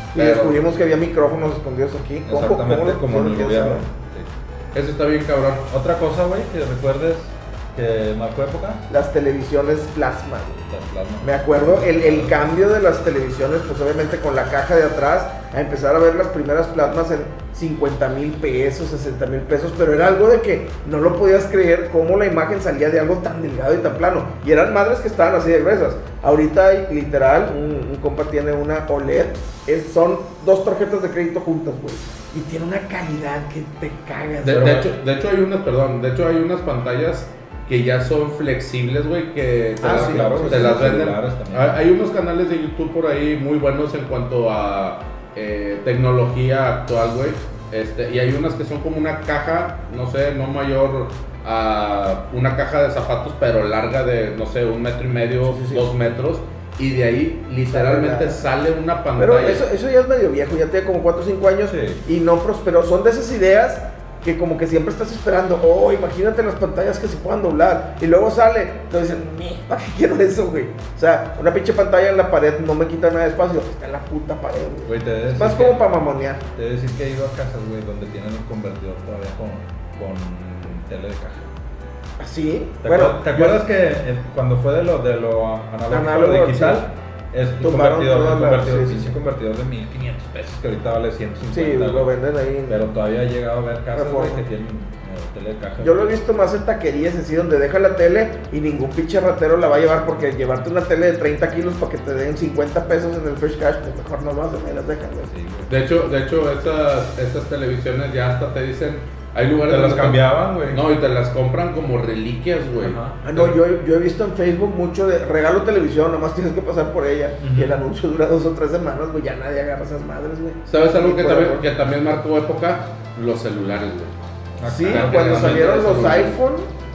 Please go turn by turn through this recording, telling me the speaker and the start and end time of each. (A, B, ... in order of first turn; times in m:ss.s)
0:00.1-0:03.8 A
0:00.1-0:00.6 B
0:02.2-0:04.3 C
0:04.7-0:05.7 B
0:05.7-0:08.8 C
0:08.9-0:10.6 A
0:10.6-0:12.4 C
0:11.2-0:34.9 A
0:34.4-0:59.6 B
0:39.8-0:40.8 A
0:39.8-0:41.8 C
0:55.4-0:55.8 A
0:57.7-0:58.4 A
0:59.2-1:16.4 A
1:01.7-1:02.0 C
1:14.9-1:15.8 C
1:16.6-1:21.5 C
1:22.2-1:23.6 A
1:22.8-1:32.1 C
1:25.9-1:26.8 A
1:27.6-1:29.1 A
1:31.5-1:32.8 A
1:32.7-1:36.2 C
1:33.9-1:34.4 A
1:35.8-1:45.3 A
1:45.3-1:45.7 C
1:45.7-1:53.6 B
1:49.7-1:50.8 C
1:52.8-1:53.2 C
1:53.2-2:01.6 A
1:57.4-1:57.8 C
2:00.7-2:04.1 B
2:04.6-2:06.1 C
2:04.7-2:06.7 A
2:04.8-2:06.4 B